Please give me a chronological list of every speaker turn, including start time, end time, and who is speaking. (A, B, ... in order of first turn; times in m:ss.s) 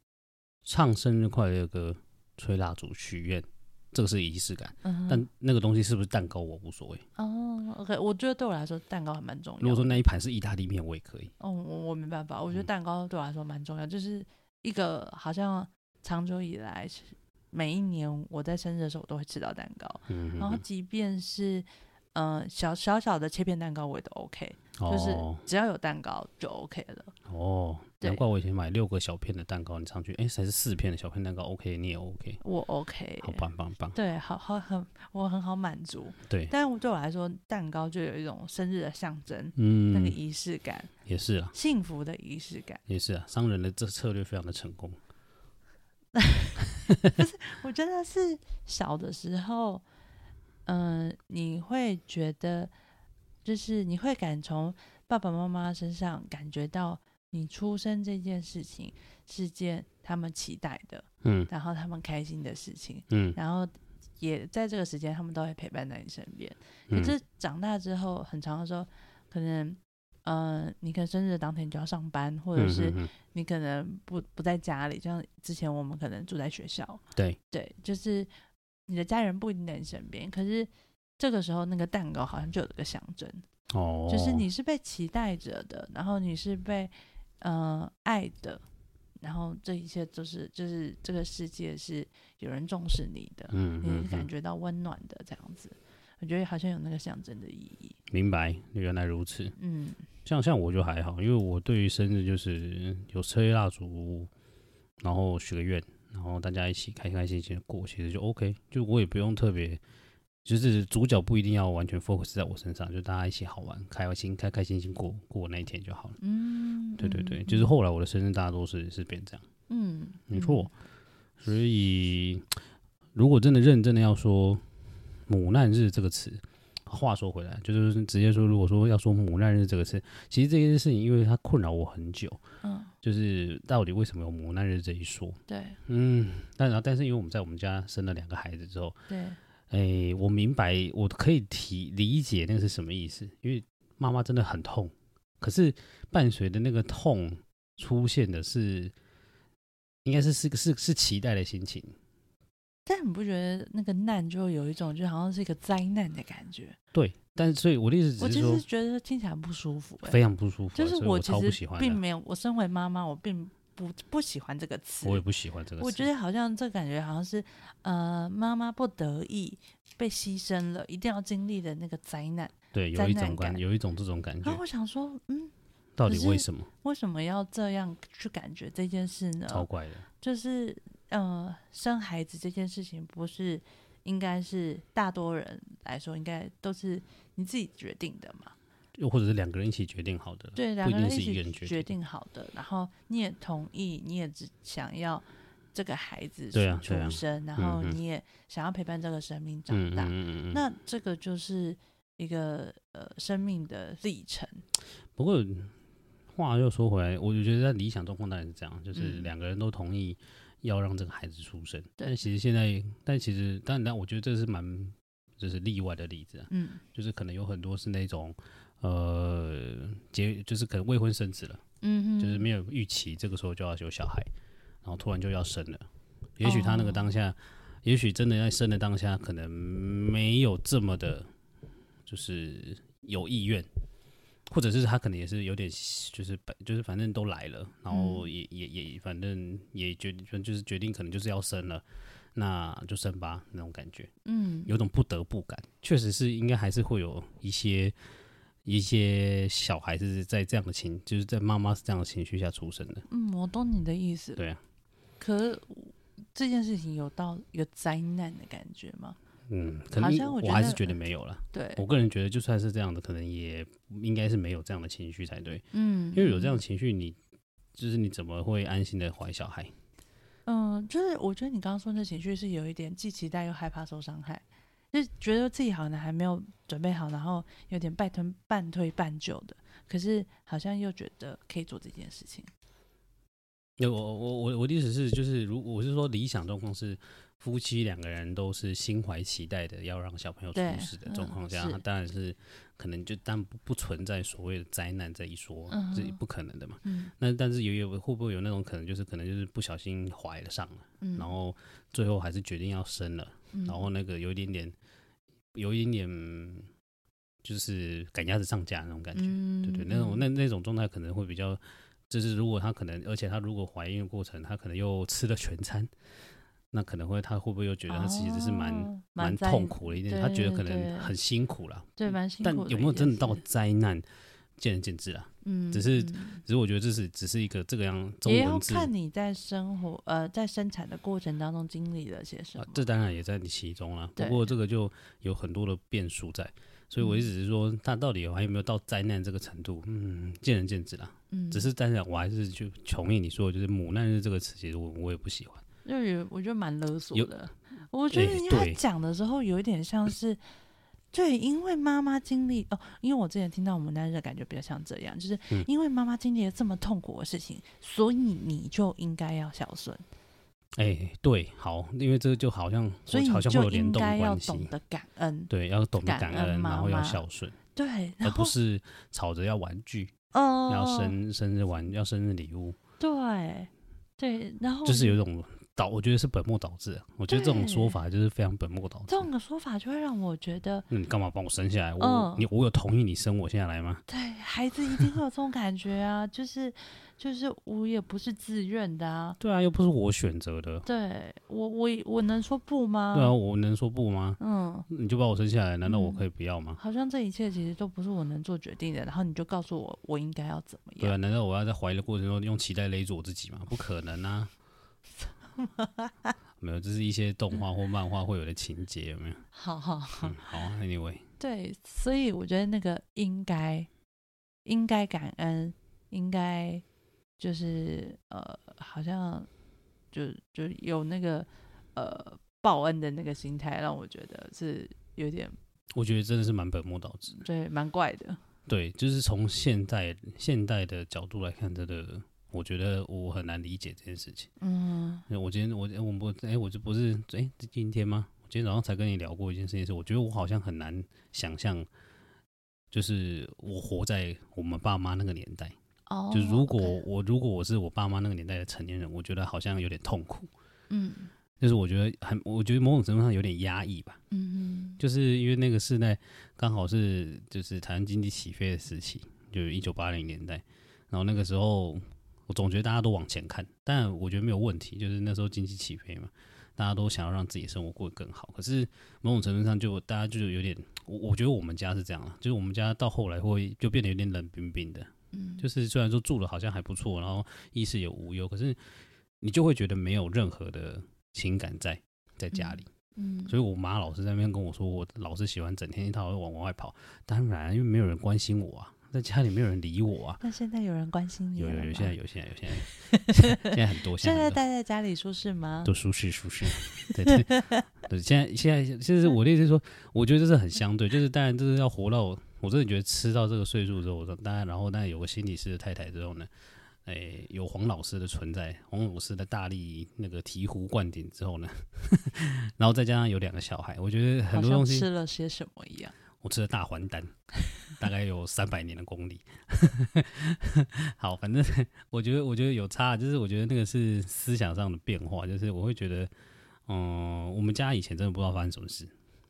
0:00.6-0:07.0 A
0:04.8-0:05.2 B
0:07.2-0:09.9 B
0:09.6-0:11.3 A
0:11.4-0:27.1 B
0:20.1-0:20.6 A
0:24.8-0:25.4 A
0:27.3-0:32.4 A
0:32.4-0:40.9 B
0:33.2-0:34.0 A
0:39.6-0:40.2 A
0:41.0-0:41.5 A
0:41.5-0:42.8 B
0:42.9-0:45.0 A
0:46.1-0:49.8 B
0:50.6-0:52.7 B
0:53.4-1:18.3 B
1:01.2-1:01.5 A
1:03.1-1:03.4 A
1:06.9-1:07.1 A
1:12.6-1:13.1 A
1:18.9-1:23.4 B
1:23.7-1:24.5 A
1:24.1-1:28.6 B
1:29.2-1:38.0 B
1:33.5-1:34.3 A
1:38.1-1:39.6 A
1:39.6-1:40.0 B
1:40.2-1:44.3 A
1:45.0-1:49.8 A
1:50.4-1:56.2 A
1:56.2-1:57.7 B
1:57.0-1:59.4 A
1:59.7-2:00.7 B
2:00.3-2:00.7 A
2:01.4-2:02.5 A
2:03.1-2:04.6 A
2:05.3-2:12.4 A
2:12.6-2:12.9 B
2:13.0-2:19.0 A
2:15.5-2:15.8 B
2:19.1-2:19.4 B
2:19.7-2:28.9 A
2:30.0-2:31.9 A
2:32.8-2:36.8 B
2:36.9-2:38.6 A
2:38.2-2:40.2 B
2:40.0-2:42.0 A
2:40.7-2:45.2 B
2:45.0-2:46.1 A
2:45.8-2:53.6 B
2:52.7-2:54.6 A
2:54.4-2:55.5 B
2:56.0-2:56.7 A
2:56.0-2:59.7 B
2:59.5-3:00.0 A
3:00.2-3:08.5 B
3:09.0-3:11.9 A
3:10.6-3:24.6 B
3:16.5-3:18.0 A
3:19.7-3:20.6 A
3:25.2-3:25.7 A
3:26.3-3:41.6 A
3:29.0-3:29.3 B
3:36.5-3:36.8 B
3:41.8-3:42.5 B
3:42.2-3:44.3 A
3:44.8-3:45.8 A
3:46.4-3:51.3 A
3:46.4-3:47.1 B
3:52.1-3:53.7 A
3:54.5-4:01.8 A
3:57.9-3:58.2 B
4:02.3-4:04.1 A
4:04.2-4:04.7 B
4:04.7-4:07.9 A
4:08.6-4:13.0 A
4:13.1-4:14.4 B
4:15.2-4:19.2 B
4:19.5-4:27.2 A
4:20.0-4:20.9 B
4:21.5-4:21.8 B
4:25.7-4:26.6 B
4:27.8-4:29.7 A
4:30.4-4:42.5 B
4:43.8-5:04.7 A
4:50.5-4:51.8 B
4:55.7-4:56.2 B
4:56.8-4:57.1 B
5:01.0-5:01.3 B
5:03.5-5:03.9 B
5:05.5-5:06.7 A
5:07.4-5:15.9 A
5:09.1-5:10.2 B
5:16.7-5:24.0 A
5:17.9-5:21.1 B
5:22.0-5:23.4 B
5:24.6-5:28.9 A
5:25.4-5:26.4 B
5:28.2-5:32.8 B
5:32.6-5:45.6 A
5:34.2-5:34.5 B
5:37.0-5:37.3 B
5:41.3-5:41.7 B
5:45.8-5:50.4 B
5:48.1-5:48.8 A
5:51.1-6:00.0 B
6:00.8-6:04.7 A
6:03.1-6:07.2 B
6:05.5-6:07.6 A
6:07.7-6:08.5 B
6:08.2-6:10.1 A
6:10.3-6:11.2 B
6:10.7-6:12.8 A
6:13.0-6:15.2 B
6:14.8-6:19.3 A
6:17.3-6:18.0 B
6:19.1-6:20.9 B
6:20.9-6:24.0 A
6:22.0-6:22.4 B
6:24.1-6:29.4 B
6:29.4-6:30.8 A
6:30.8-6:33.3 B
6:33.1-6:36.8 A
6:34.4-6:34.9 B
6:35.8-6:36.2 B
6:36.8-6:41.1 B
6:41.0-6:44.5 A
6:45.2-6:46.3 B
6:46.6-6:49.4 A
6:49.5-6:50.6 B
6:50.2-6:51.2 A
6:51.4-6:53.9 B
6:54.6-6:56.8 B
6:57.4-6:59.5 B
7:00.1-7:05.5 B
7:05.9-7:07.4 A
7:07.4-7:08.4 B
7:08.7-7:14.5 A
7:14.6-7:15.2 B
7:15.3-7:21.9 A
7:22.9-7:25.7 A
7:26.1-7:27.0 B
7:26.3-7:30.5 A
7:30.9-7:31.3 B
7:31.6-7:34.2 A
7:34.3-7:35.0 B
7:35.0-7:58.8 A
7:55.3-7:55.6 B
7:59.4-8:02.9 A
8:02.5-8:03.5 B
8:03.5-8:10.4 A
8:10.4-8:12.1 B
8:11.6-8:14.6 A
8:12.8-8:15.9 B
8:15.8-8:26.5 A
8:16.7-8:17.8 B
8:27.0-8:35.1 A
8:34.5-8:36.1 B
8:36.4-8:37.3 A
8:37.9-8:46.3 A
8:46.9-8:49.1 A